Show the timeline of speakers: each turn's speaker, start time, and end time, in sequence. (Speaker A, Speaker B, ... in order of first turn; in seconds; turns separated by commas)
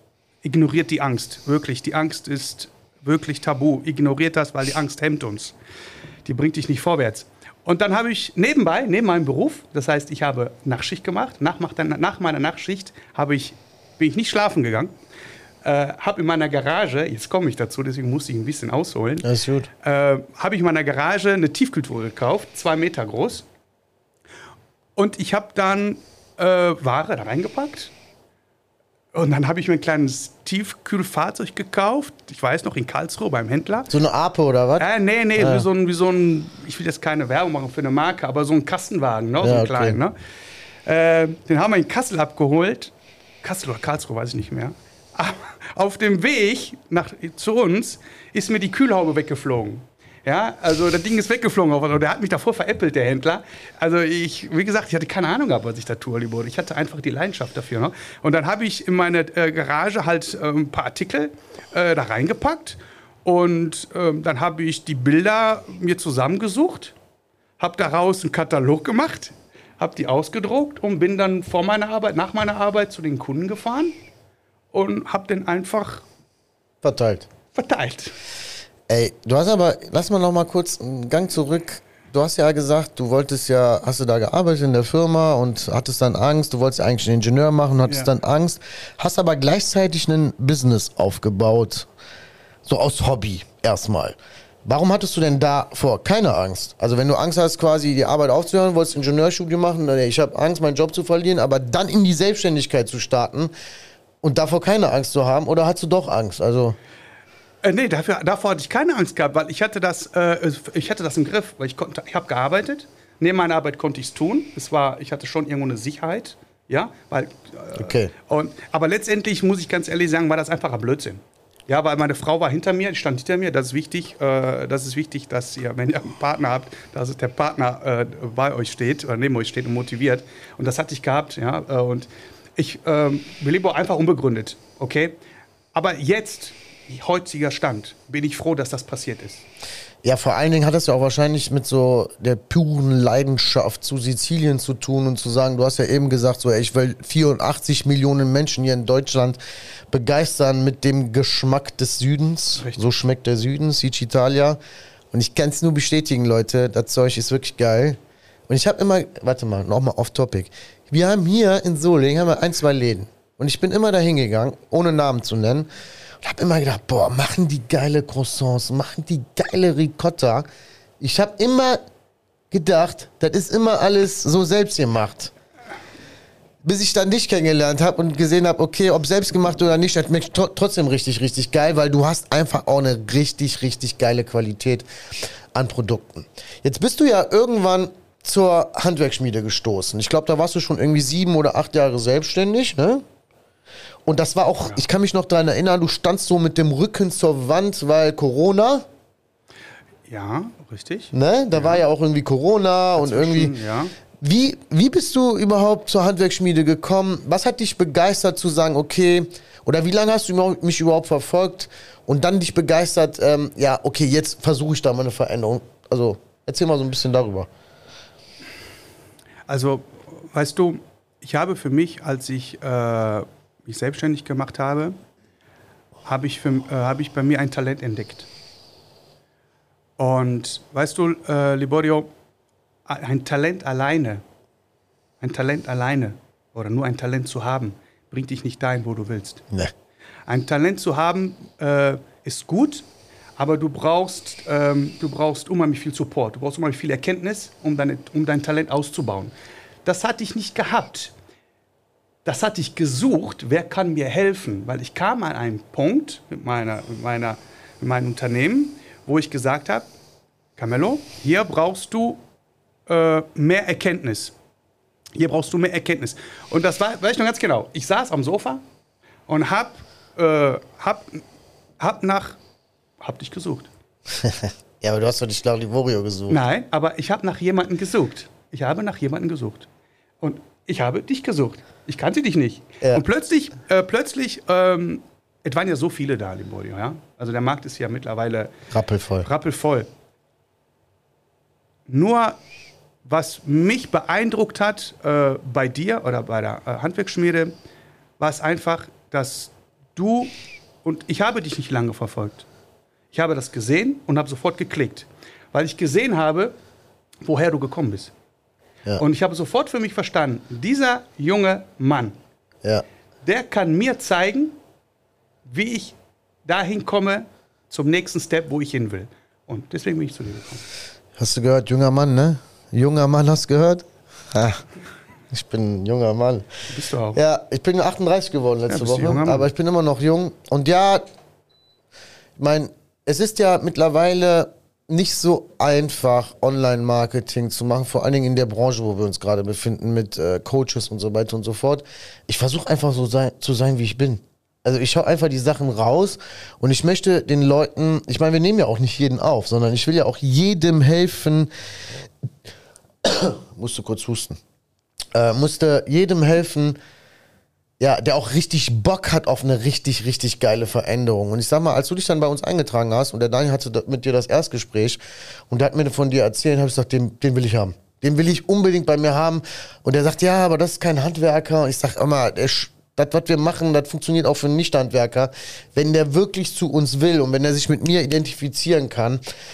Speaker A: 0.4-5.5, Speaker A: 6.2-14.9, Speaker A: 15.6-19.3, Speaker B: 19.2-19.7, Speaker A: 19.8-23.4, Speaker A: 24.9-27.9, Speaker A: 29.1-33.9, Speaker B: 33.9-35.6, Speaker A: 34.8-40.1, Speaker B: 39.4-40.0, Speaker A: 40.8-66.9, Speaker A: 67.6-73.9, Speaker A: 74.7-76.0, Speaker B: 76.8-77.3, Speaker A: 77.5-78.1, Speaker B: 78.9-91.9, Speaker B: 92.6-103.5, Speaker B: 104.2-106.8, Speaker A: 107.6-135.1, Speaker B: 117.8-118.1, Speaker A: 135.7-139.4, Speaker B: 140.0-149.4, Speaker B: 149.9-154.6, Speaker B: 155.1-165.7, Speaker B: 166.2-170.4, Speaker B: 171.0-171.8, Speaker B: 172.5-175.3, Speaker B: 176.6-184.9, Speaker B: 185.5-193.0, Speaker B: 194.1-198.8, Speaker A: 200.1-201.8, Speaker B: 201.1-203.5, Speaker A: 203.0-203.9, Speaker B: 204.2-217.5, Speaker A: 219.5-224.9, Speaker A: 226.0-228.3, Speaker A: 230.0-232.1, Speaker A: 232.8-234.2, Speaker A: 235.2-239.4, Speaker A: 240.3-242.8, Speaker A: 243.4-249.3, Speaker A: 249.8-251.1, Speaker A: 252.2-259.9, Speaker A: 260.6-262.2, Speaker A: 262.9-264.3, Speaker A: 265.1-268.6, Speaker A: 269.3-271.2, Speaker A: 271.8-272.4, Speaker A: 273.0-273.7, Speaker B: 274.1-276.4, Speaker A: 276.3-279.7, Speaker A: 280.2-288.5, Speaker B: 288.7-289.3, Speaker A: 289.2-289.9, Speaker A: 291.9-292.4, Speaker A: 293.0-297.5, Speaker A: 298.2-300.3, Speaker A: 300.8-302.4, Speaker A: 303.1-306.5, Speaker A: 307.2-308.1, Speaker A: 309.0-312.2, Speaker A: 313.2-314.6, Speaker A: 315.4-320.6, Speaker B: 321.2-324.6, Speaker B: 325.3-326.5, Speaker A: 326.7-327.2, Speaker B: 327.1-331.0, Speaker A: 328.7-329.5, Speaker B: 332.4-351.5, Speaker B: 353.0-354.4, Speaker B: 355.1-356.8, Speaker B: 357.8-379.2